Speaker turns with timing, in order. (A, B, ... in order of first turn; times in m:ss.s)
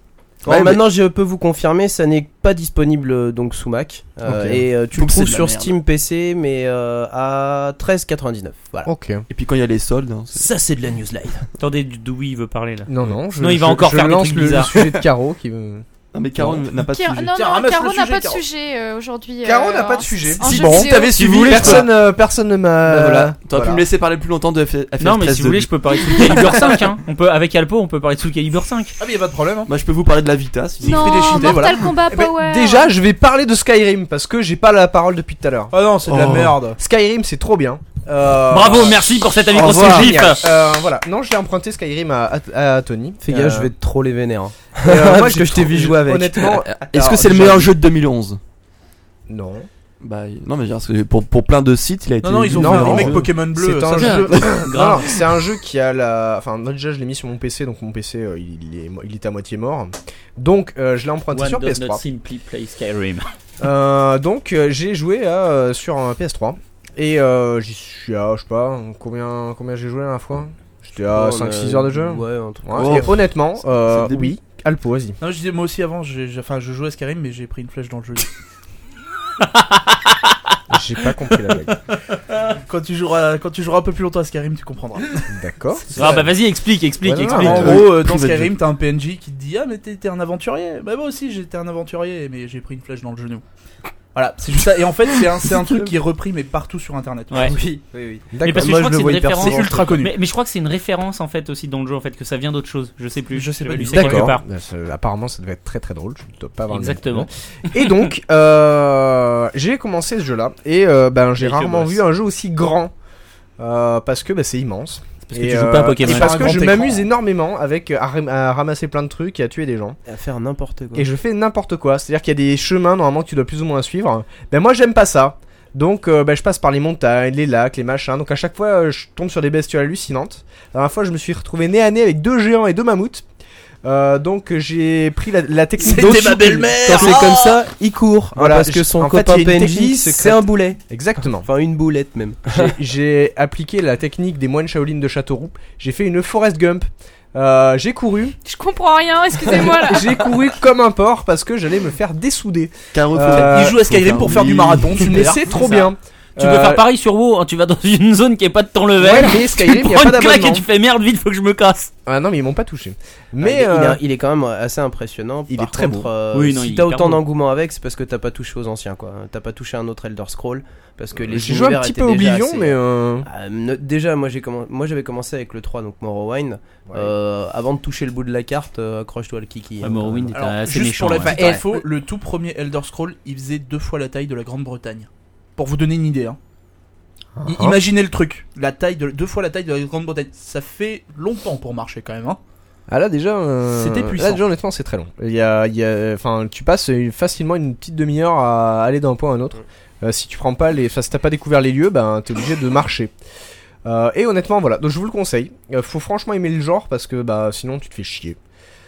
0:00.4-0:00.8 A
0:00.4-0:08.9 B
0:04.2-0:04.6 C
0:04.9-0:05.8 A
0:08.8-0:09.2 C
0:09.3-0:10.5 A
0:10.3-0:11.5 B
0:11.6-0:14.9 D
0:12.9-0:15.8 C
0:16.1-0:17.4 A
0:16.8-0:21.3 E
0:17.3-0:18.4 F
0:19.4-0:23.8 C
0:20.4-0:21.9 A
0:22.8-0:26.9 A
0:25.0-0:28.9 D
0:29.0-0:29.7 F
0:29.7-0:31.6 A
0:30.8-0:32.0 F
0:30.8-0:32.9 E
0:32.0-0:43.7 C
0:35.7-0:36.8 F
0:36.1-0:36.5 A
0:38.5-0:40.4 D
0:39.5-0:40.3 A
0:43.2-0:46.6 B
0:44.8-0:47.7 C
0:46.4-0:48.4 A
0:49.3-0:49.7 C
0:50.0-0:53.3 A
0:52.2-0:54.6 F
0:52.5-1:02.0 C
0:54.0-0:55.3 D
1:01.3-1:03.2 D
1:03.6-1:15.2 C
1:11.0-1:13.1 B
1:12.8-1:14.3 A
1:15.2-1:18.3 F
1:19.4-1:20.2 D
1:20.7-1:21.8 C
1:22.4-1:25.3 F
1:25.3-1:26.3 C
1:25.9-1:27.8 D
1:26.0-1:26.2 F
1:27.0-1:27.8 C
1:27.3-1:33.4 F
1:27.3-1:28.5 A
1:34.1-1:37.6 F
1:37.4-1:39.6 B
1:38.3-1:39.1 C
1:38.4-1:44.4 D
1:39.2-1:40.1 F
1:43.3-1:44.3 F
1:43.9-1:52.9 C
1:46.7-1:48.1 D
1:51.4-1:52.0 D
1:53.6-2:00.0 C
1:55.3-1:56.7 D
1:56.0-1:57.0 F
2:00.1-2:01.1 B
2:00.9-2:13.2 C
2:13.8-2:17.3 C
2:15.8-2:17.6 F
2:16.8-2:22.8 B
2:18.3-2:21.5 C
2:22.5-2:28.4 C
2:28.4-2:30.3 E
2:29.7-2:36.8 C
2:32.9-2:35.2 A
2:33.3-2:35.6 F
2:35.5-2:41.9 D
2:39.0-2:40.6 C
2:42.0-2:44.0 C
2:43.4-3:00.4 B
2:45.5-2:46.1 C
2:46.3-2:47.2 D
2:51.2-2:53.3 C
2:56.9-2:57.1 C
2:59.8-3:01.6 D
3:00.3-3:06.4 F
3:01.3-3:01.8 C
3:07.4-3:07.8 C
3:07.4-3:12.4 F
3:12.9-3:23.1 C
3:13.7-3:14.4 F
3:23.8-3:28.4 C